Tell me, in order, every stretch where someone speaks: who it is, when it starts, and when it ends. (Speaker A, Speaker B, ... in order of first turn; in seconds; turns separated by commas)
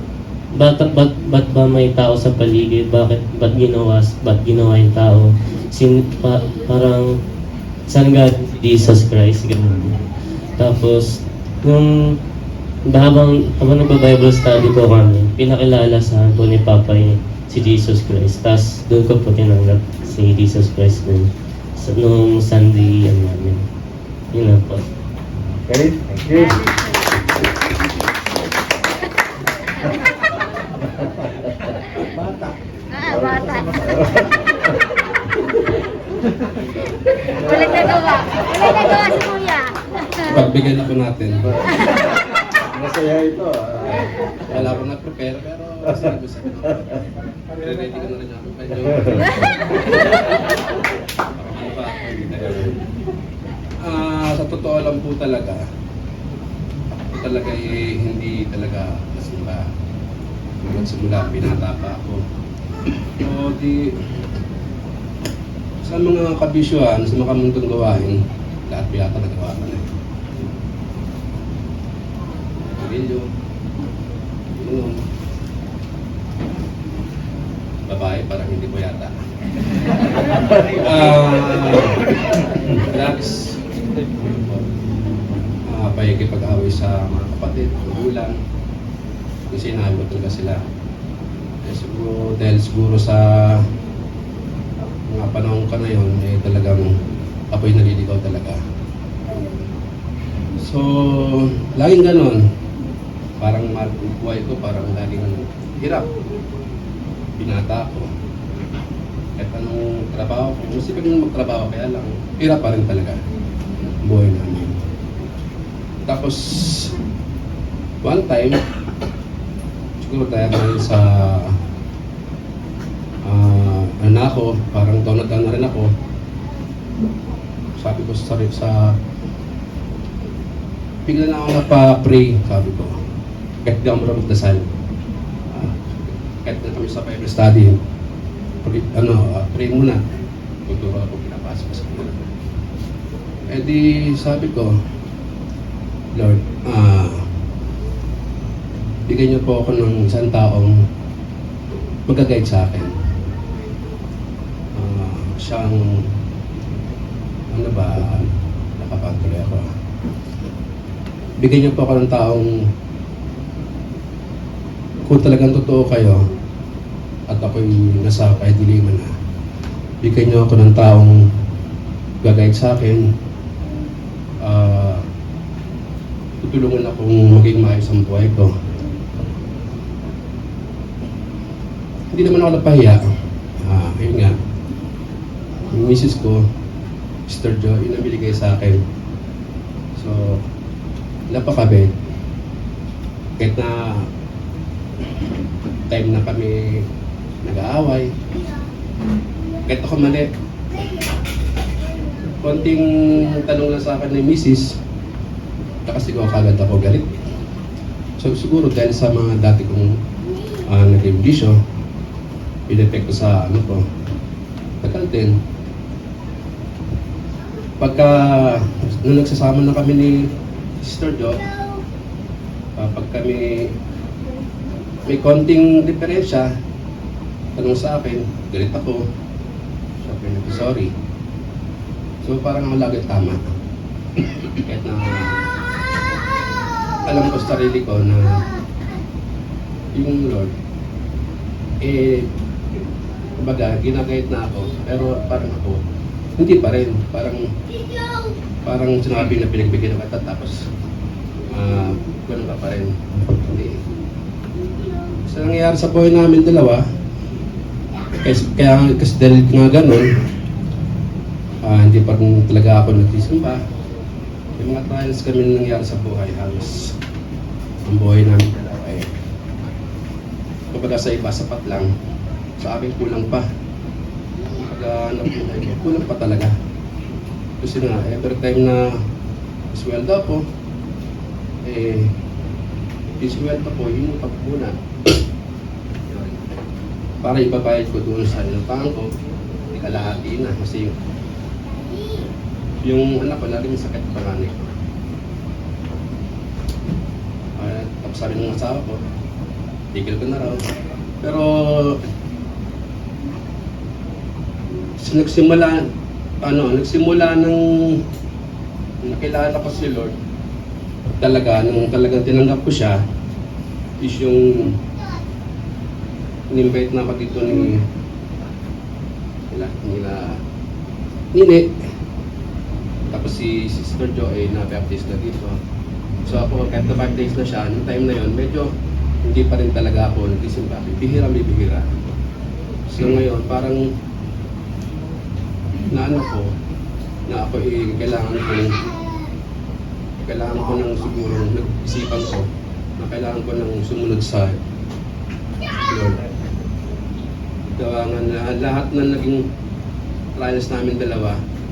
Speaker A: 0.6-7.2, Speaker A: 7.9-10.0, Speaker A: 10.6-12.2, Speaker A: 12.9-23.7, Speaker A: 24.3-24.9, Speaker B: 25.7-26.6, Speaker C: 26.3-27.3, Speaker B: 30.8-31.8, Speaker C: 32.9-34.0, Speaker B: 33.1-34.8, Speaker C: 37.3-40.3, Speaker B: 37.4-38.0, Speaker B: 38.6-38.9, Speaker D: 40.3-41.4, Speaker B: 41.4-41.9, Speaker B: 42.7-44.8, Speaker D: 44.5-47.0, Speaker D: 47.6-50.5, Speaker B: 49.0-49.5, Speaker D: 51.4-52.8, Speaker D: 53.8-55.6, Speaker D: 57.1-59.7, Speaker D: 60.6-62.2, Speaker D: 63.2-64.0, Speaker D: 65.8-69.9, Speaker D: 72.7-73.3, Speaker D: 74.6-75.0, Speaker D: 77.9-79.2, Speaker D: 80.0-84.7, Speaker D: 85.7-88.4, Speaker D: 89.5-90.6, Speaker D: 91.6-93.7, Speaker D: 95.1-97.0, Speaker D: 97.5-98.6, Speaker D: 100.6-102.5, Speaker D: 103.4-106.1, Speaker D: 107.4-108.1, Speaker D: 109.4-113.2, Speaker D: 113.8-114.8, Speaker D: 116.0-116.9, Speaker D: 118.0-118.6, Speaker D: 120.0-121.6, Speaker D: 123.2-125.9, Speaker D: 127.8-129.0, Speaker D: 131.1-133.0, Speaker D: 133.7-134.7, Speaker D: 135.5-137.8, Speaker D: 138.6-140.0, Speaker D: 140.7-142.3, Speaker D: 143.5-144.8, Speaker D: 146.1-147.3, Speaker D: 149.1-150.9, Speaker D: 152.1-152.9, Speaker D: 154.8-156.1, Speaker D: 157.5-159.7, Speaker D: 161.4-162.7, Speaker D: 165.0-166.2, Speaker D: 167.3-169.1, Speaker D: 170.0-171.3, Speaker D: 172.2-173.1, Speaker D: 174.4-175.1, Speaker D: 176.4-178.5, Speaker D: 182.1-183.1, Speaker D: 183.6-184.4, Speaker D: 185.7-186.5, Speaker D: 187.3-188.8, Speaker D: 190.0-190.4, Speaker D: 191.3-191.9, Speaker D: 193.4-194.1, Speaker D: 195.9-196.9, Speaker D: 197.4-198.1, Speaker D: 199.7-200.3, Speaker D: 202.4-204.8, Speaker D: 205.9-207.3, Speaker D: 208.2-209.9, Speaker D: 210.7-211.6, Speaker D: 212.7-213.8, Speaker D: 214.8-215.4, Speaker D: 217.8-221.5, Speaker D: 222.8-223.7, Speaker D: 225.1-226.5, Speaker D: 227.6-229.1, Speaker D: 230.0-230.9, Speaker D: 232.2-233.4, Speaker D: 234.2-235.4, Speaker D: 237.1-238.4, Speaker D: 239.9-240.5, Speaker D: 241.8-242.3, Speaker D: 243.4-245.8, Speaker D: 246.4-247.5, Speaker D: 248.6-250.7, Speaker D: 251.5-253.8, Speaker D: 255.3-256.8, Speaker D: 258.2-260.1, Speaker D: 261.6-263.6, Speaker D: 264.6-267.0, Speaker D: 267.8-269.1, Speaker D: 270.7-271.9, Speaker D: 272.6-273.5, Speaker D: 274.6-276.6, Speaker D: 277.6-279.0, Speaker D: 279.7-280.4, Speaker D: 281.6-282.1, Speaker D: 283.2-285.1, Speaker D: 286.1-286.6, Speaker D: 287.2-289.1, Speaker D: 289.7-290.9, Speaker D: 292.8-294.7, Speaker D: 297.6-299.0, Speaker D: 299.9-300.6, Speaker D: 301.2-302.0, Speaker D: 305.0-305.9, Speaker D: 306.4-308.0, Speaker D: 309.0-310.2, Speaker D: 311.2-313.0, Speaker D: 314.0-314.8, Speaker D: 316.5-317.8, Speaker D: 319.5-320.4, Speaker D: 321.3-321.8, Speaker D: 323.1-325.6, Speaker D: 326.2-328.7, Speaker D: 329.2-331.9, Speaker D: 332.9-333.9, Speaker D: 335.9-336.5, Speaker D: 337.3-338.8, Speaker D: 340.2-342.5, Speaker D: 343.0-344.6, Speaker D: 345.9-346.2, Speaker D: 347.8-349.5, Speaker D: 350.4-351.4